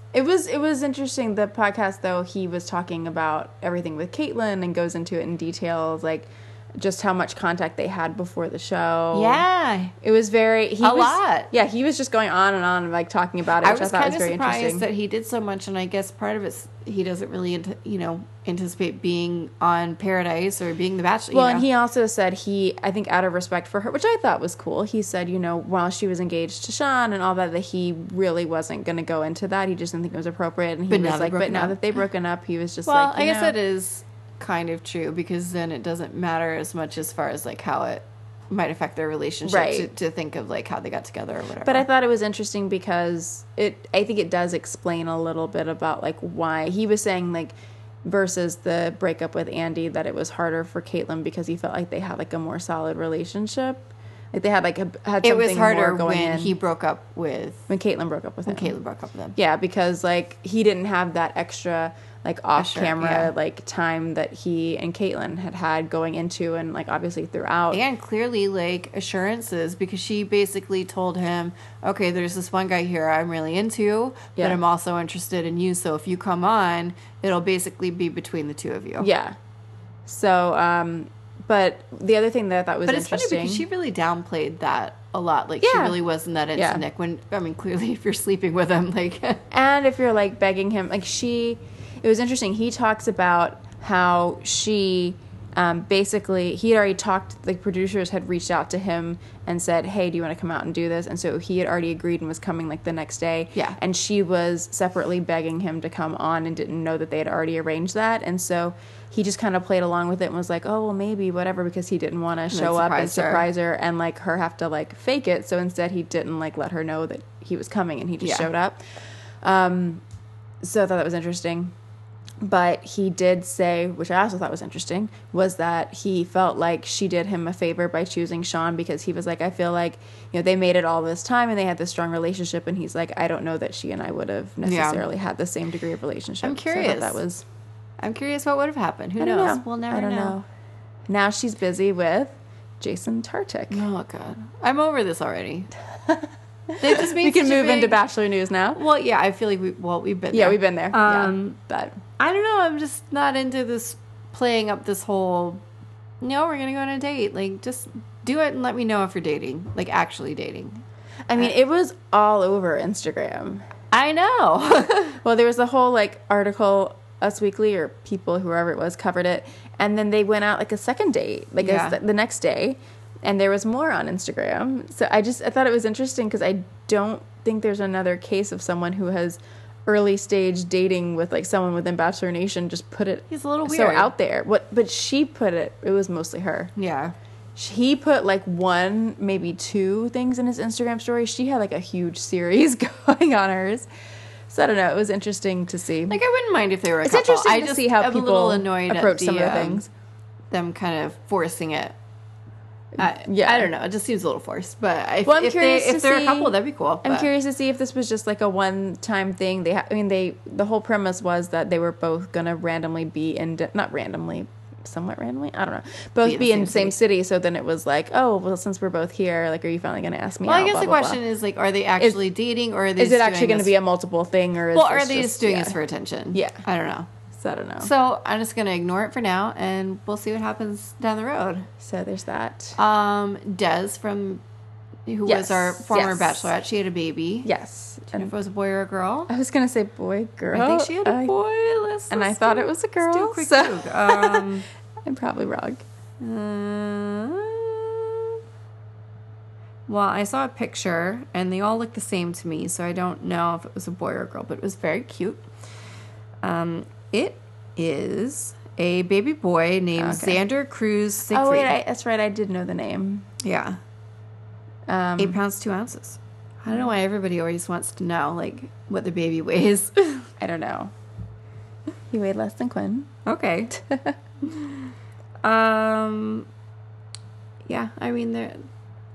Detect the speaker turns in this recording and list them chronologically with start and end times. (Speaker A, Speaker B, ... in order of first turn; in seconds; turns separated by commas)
Speaker A: 0.1-9.4, Speaker B: 9.1-9.9, Speaker A: 10.0-14.9, Speaker B: 10.8-11.5, Speaker B: 13.6-21.7, Speaker A: 21.3-33.6, Speaker B: 30.9-31.8, Speaker B: 32.9-41.9, Speaker A: 39.5-39.9, Speaker A: 41.6-56.5, Speaker B: 55.2-57.7, Speaker A: 57.7-58.7, Speaker B: 58.5-59.4, Speaker A: 59.4-67.8, Speaker B: 62.6-63.3, Speaker B: 67.7-79.1, Speaker A: 79.0-79.4, Speaker A: 80.1-83.7, Speaker B: 82.9-89.4, Speaker A: 85.6-86.0, Speaker A: 86.6-86.8, Speaker A: 89.5-120.0, Speaker B: 112.5-113.5, Speaker B: 118.2-118.5, Speaker A: 120.6-121.7, Speaker A: 122.4-137.4, Speaker B: 134.6-135.1, Speaker B: 136.4-137.2, Speaker B: 138.0-140.4, Speaker A: 139.2-140.4, Speaker A: 141.1-143.8, Speaker B: 143.7-145.7, Speaker A: 146.8-148.8, Speaker B: 146.8-148.0, Speaker B: 148.7-151.6, Speaker A: 150.3-152.0, Speaker B: 152.2-155.6, Speaker B: 156.2-160.8, Speaker A: 161.3-163.6, Speaker B: 163.9-165.2, Speaker A: 165.2-186.7, Speaker B: 171.6-172.0, Speaker B: 183.3-184.1, Speaker B: 186.8-187.1, Speaker A: 187.6-193.9, Speaker A: 194.5-196.2, Speaker B: 196.1-199.8, Speaker A: 197.0-199.9, Speaker B: 200.5-201.9, Speaker A: 203.0-203.7, Speaker B: 203.0-207.3, Speaker A: 205.2-221.2, Speaker B: 216.2-217.0, Speaker B: 220.4-223.7, Speaker A: 223.0-225.8, Speaker B: 224.7-227.1, Speaker A: 226.3-226.6, Speaker A: 227.3-227.9, Speaker B: 227.8-231.7, Speaker A: 231.8-232.8, Speaker B: 232.8-234.4, Speaker B: 235.1-237.5, Speaker A: 235.3-236.5, Speaker A: 237.4-238.3, Speaker B: 238.0-239.3, Speaker A: 239.3-241.3, Speaker B: 240.5-244.7, Speaker A: 242.1-244.5, Speaker A: 245.1-245.8, Speaker B: 246.2-248.4, Speaker B: 249.9-255.4, Speaker B: 256.4-261.7, Speaker A: 260.0-260.4, Speaker A: 261.3-263.3, Speaker B: 263.4-263.8, Speaker A: 264.9-265.4, Speaker B: 265.2-270.3, Speaker A: 270.4-270.9, Speaker A: 272.1-273.1, Speaker B: 273.3-273.8, Speaker A: 273.7-274.2, Speaker B: 274.4-274.8, Speaker B: 275.4-276.5, Speaker B: 277.7-278.6